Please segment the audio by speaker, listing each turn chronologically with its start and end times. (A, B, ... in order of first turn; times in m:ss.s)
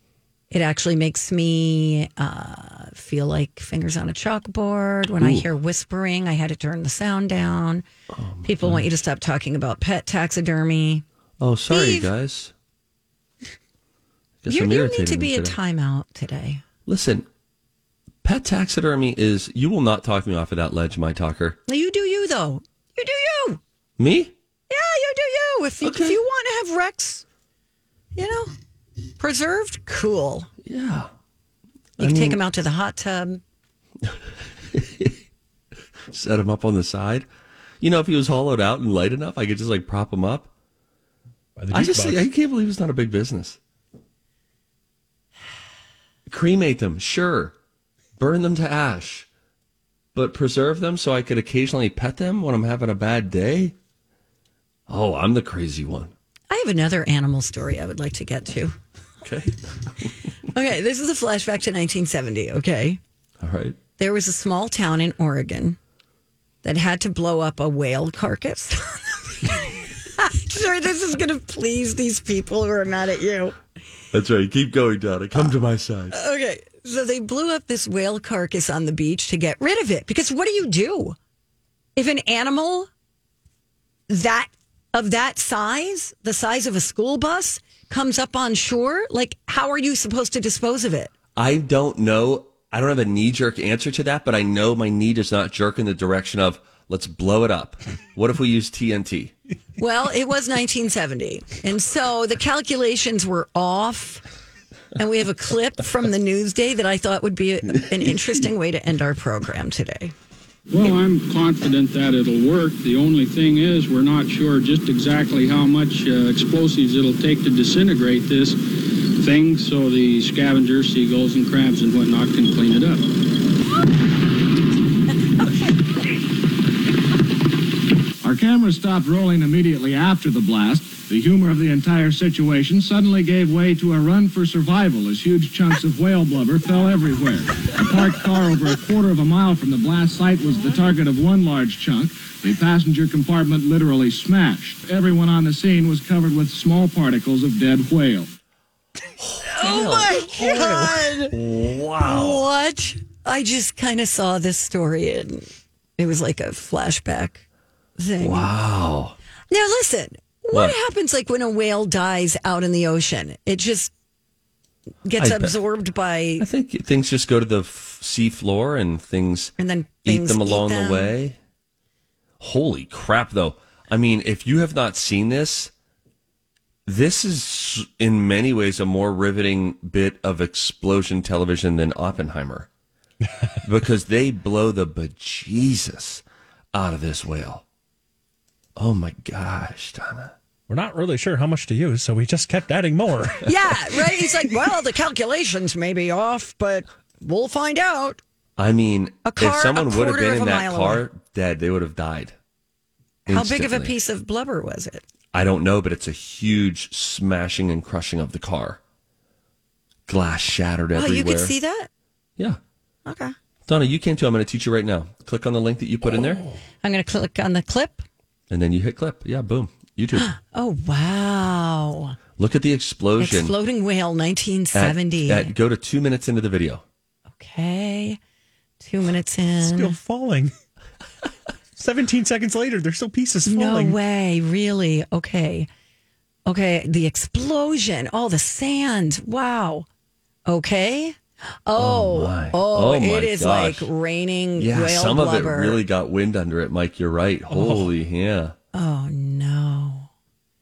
0:00.5-0:07.8 A
0:05.2-0:05.5 B
0:08.1-0:08.9 B
0:08.4-0:11.0 A
0:11.4-0:12.5 B
0:11.7-0:12.1 A
0:14.4-0:15.6 B
0:14.5-0:16.6 A
0:16.9-0:17.3 B
0:18.2-0:21.6 B
0:21.7-0:23.6 A
0:24.0-0:24.3 B
0:24.7-0:27.2 A
0:25.8-0:26.2 B
0:28.2-0:28.5 A
0:29.2-0:30.5 A
0:30.6-0:31.1 B
0:32.0-0:32.4 B
0:32.0-0:33.4 A
0:34.7-0:35.2 B
0:36.1-0:37.3 B
0:37.8-0:40.5 B
0:41.6-0:42.3 C
0:41.7-0:43.6 B
0:46.3-0:47.5 B
0:48.2-0:49.3 B
0:50.1-0:53.8 B
0:54.9-0:56.1 B
0:56.5-0:58.8 A
0:59.2-1:00.1 B
1:00.5-1:03.0 A
1:03.4-1:03.8 B
1:04.0-1:05.8 A
1:06.6-1:13.6 A
1:14.1-1:16.2 B
1:16.1-1:21.2 A
1:22.0-1:22.9 A
1:24.1-1:31.1 A
1:31.4-1:39.3 B
1:39.8-1:44.2 A
1:45.0-1:50.1 A
1:50.7-1:58.6 D
1:59.1-2:03.1 D
2:08.2-2:28.3 E
2:29.2-2:32.4 B
2:29.6-2:31.4 A
2:32.0-2:37.4 A
2:38.0-2:38.5 A
2:38.2-2:39.2 B
2:39.5-2:43.9 A
2:45.0-2:46.5 A
2:45.2-2:45.5 B
2:46.4-2:49.6 B
2:49.6-2:51.1 A
2:50.1-2:51.4 B
2:52.4-2:55.7 B
2:56.9-3:02.7 B
3:03.6-3:06.2 B
3:06.7-3:07.6 B
3:08.8-3:10.3 B
3:10.7-3:13.8 C
3:13.4-3:18.2 A
3:18.6-3:22.4 B
3:19.2-3:21.0 A
3:23.3-3:24.0 B
3:23.3-3:25.0 A
3:25.3-3:28.8 B
3:30.1-3:31.5 B
3:31.0-3:31.9 A
3:33.1-3:33.4 A
3:33.7-3:36.4 B
3:36.8-3:38.0 A
3:38.5-3:40.3 B
3:40.2-3:42.2 A
3:42.4-3:43.6 B
3:43.2-3:45.5 A
3:44.7-3:46.8 B
3:47.4-3:48.2 A
3:48.8-3:50.0 A
3:49.6-3:50.5 C
3:51.8-3:54.0 C
3:53.4-3:55.7 A
3:56.5-3:59.9 A
4:00.5-4:05.8 A
4:01.8-4:03.9 B
4:04.6-4:08.6 B
4:07.5-4:07.9 C
4:08.7-4:10.1 A